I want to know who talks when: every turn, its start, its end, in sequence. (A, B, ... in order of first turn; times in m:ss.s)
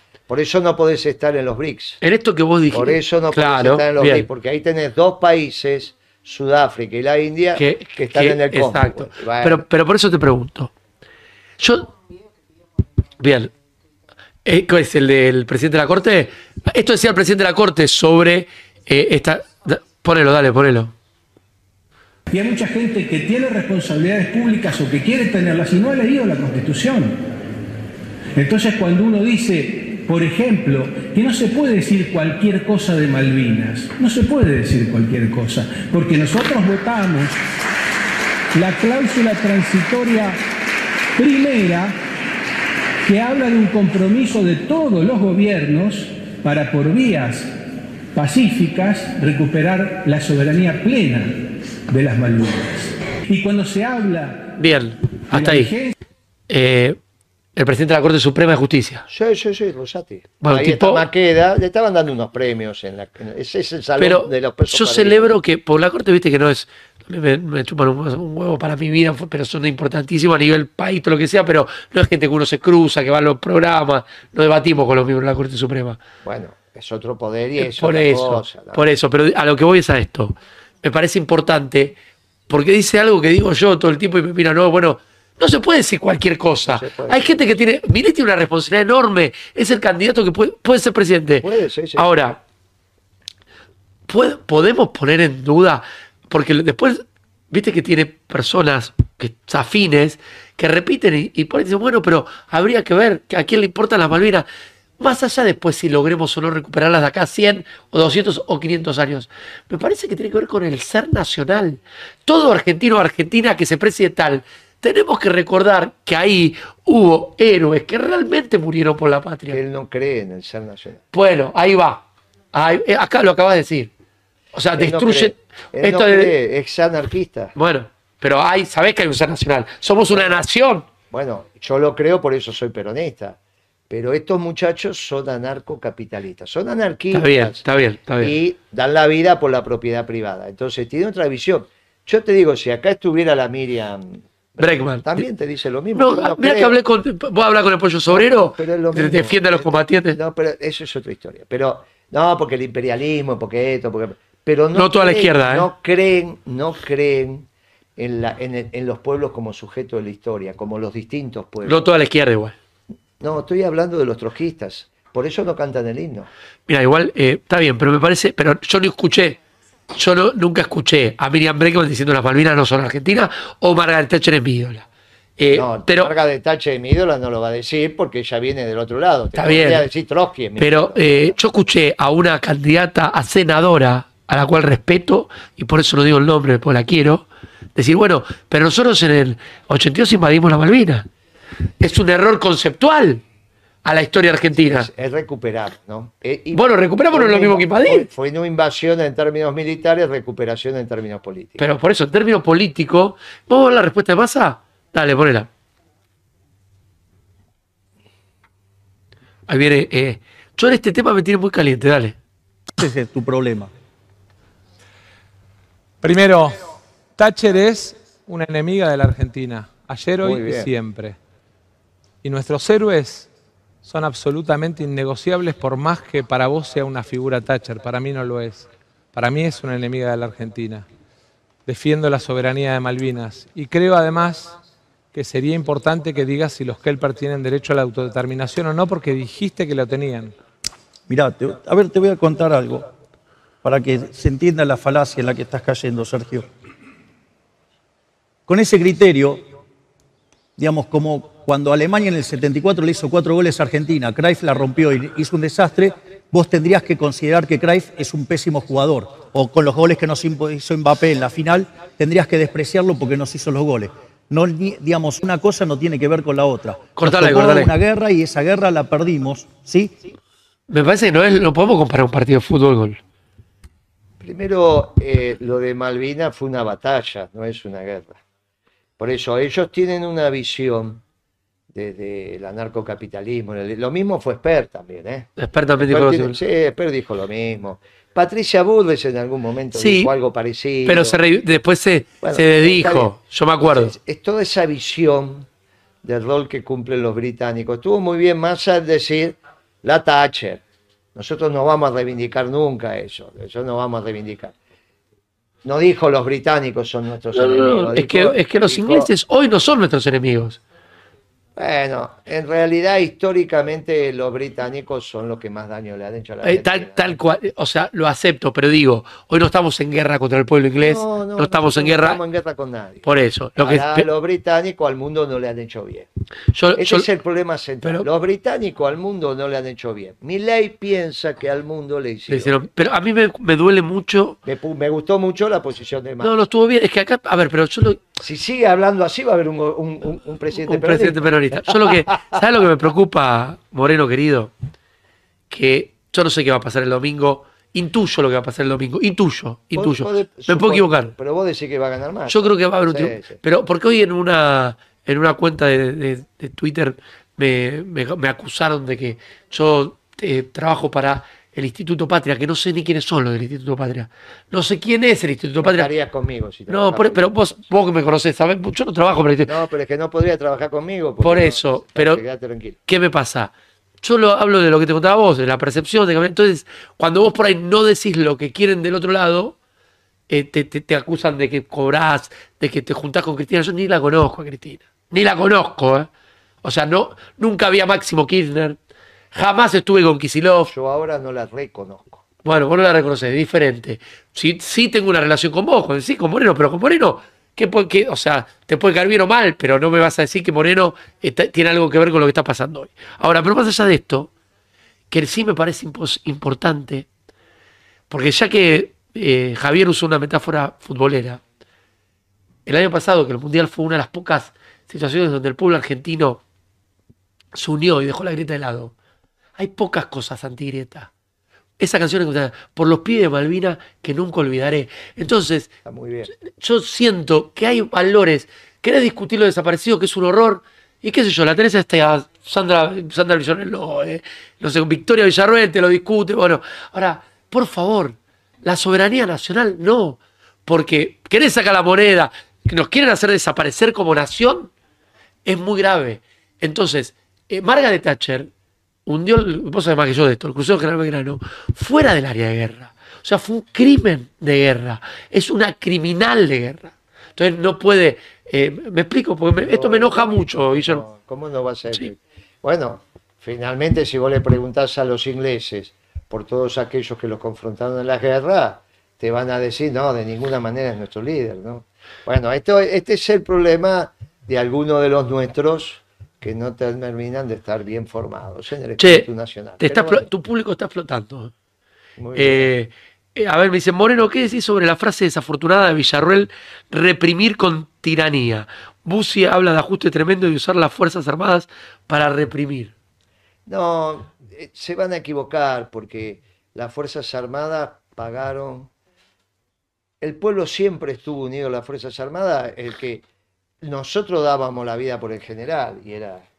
0:00.3-0:02.0 A
0:02.0-0:04.3 B
0:02.7-0:09.6 A
0:07.6-0:10.7 B
0:11.6-0:11.9 B
0:13.2-0:13.5 B
0:14.4-0:20.9 B
0:22.3-0:27.2 C
0:28.3-0:37.4 C
0:38.5-0:40.4 C
0:41.2-0:41.9 C
0:43.0-0:47.5 C
0:48.1-0:51.3 C
0:51.9-0:54.5 C
0:54.6-0:55.7 B
0:55.3-0:55.9 C
0:56.5-0:57.0 B
0:57.6-0:59.1 B
0:59.1-1:05.3 A
1:00.4-1:01.1 B
1:04.0-1:16.0 B
1:16.2-1:18.8 A
1:17.6-1:22.0 B
1:22.5-1:32.4 B
1:26.6-1:27.4 A
1:31.4-1:32.0 A
1:34.1-1:44.5 B
1:45.0-1:59.6 B
1:59.5-2:01.0 A
2:01.1-2:03.9 B
2:04.5-2:06.3 B
2:04.7-2:07.5 A
2:07.5-2:10.9 B
2:11.1-2:13.4 A
2:13.9-2:17.6 A
2:17.1-2:18.4 B
2:18.2-2:26.7 A
2:24.6-2:25.2 B
2:26.0-2:30.2 B
2:28.1-2:37.4 A
2:34.7-2:35.7 B
2:38.0-2:41.8 A
2:41.6-2:42.5 B
2:43.2-2:46.3 A
2:46.7-2:49.4 B
2:49.9-2:54.9 B
2:55.4-2:56.1 B
2:55.5-3:01.4 A
2:59.4-2:59.8 B
3:00.6-3:11.1 B
3:11.8-3:13.2 B
3:13.8-3:14.9 B
3:14.6-3:21.6 A
3:16.5-3:18.1 B
3:21.6-3:25.5 B
3:29.5-3:32.2 B
3:32.8-3:33.7 D
3:36.0-3:36.6 E
3:37.2-3:41.2 E
3:40.2-3:40.7 A
3:42.2-3:43.3 E
3:43.8-3:50.8 E
3:51.7-3:54.5 E
3:55.1-4:00.3 E
4:01.1-4:02.8 D
4:03.6-4:06.4 D
4:08.5-4:09.4 D
4:10.6-4:29.9 D
4:27.0-4:27.7 B
4:30.7-4:33.0 B
4:34.2-4:38.2 A
4:39.0-4:41.0 A
4:41.7-4:51.2 A
4:45.4-4:46.4 B
4:49.7-4:50.1 B
4:50.8-4:54.0 B
4:52.2-4:53.1 A
4:53.6-4:55.5 A
4:56.0-5:00.6 A
5:01.1-5:04.5 A
5:05.6-5:09.1 A
5:07.3-5:10.6 B
5:11.6-5:17.1 A
5:16.4-5:22.2 B
5:20.8-5:23.0 A
5:23.0-5:24.1 B
5:23.6-5:26.1 A
5:26.5-5:27.1 B
5:26.7-5:32.5 A
5:32.3-5:34.4 B
5:34.4-5:36.3 A
5:36.2-5:38.0 B
5:38.2-5:42.4 A
5:40.6-5:44.5 B
5:45.5-5:51.1 B
5:49.7-5:53.4 A
5:52.3-6:05.9 B
6:05.6-6:07.6 A
6:06.7-6:09.5 B
6:09.4-6:12.8 A
6:11.2-6:12.2 B
6:12.8-6:19.6 B
6:20.3-6:26.1 B
6:26.6-6:28.8 B
6:29.3-6:30.7 B
6:30.7-6:32.2 A
6:32.4-6:44.3 B
6:45.1-6:47.1 B
6:48.1-6:51.4 B
6:52.6-6:56.4 B
6:57.5-6:58.9 B
6:59.6-7:01.1 B
7:01.8-7:05.7 B
7:05.8-7:06.3 A
7:06.4-7:24.7 B
7:25.4-7:28.5 B
7:29.0-7:41.0 B
7:39.6-8:00.3 A
7:59.0-7:59.3 B
7:59.8-8:01.5 B
8:02.2-8:02.7 A
8:02.3-8:12.9 B
8:13.7-8:18.9 A
8:20.2-8:23.2 A
8:23.8-8:26.4 A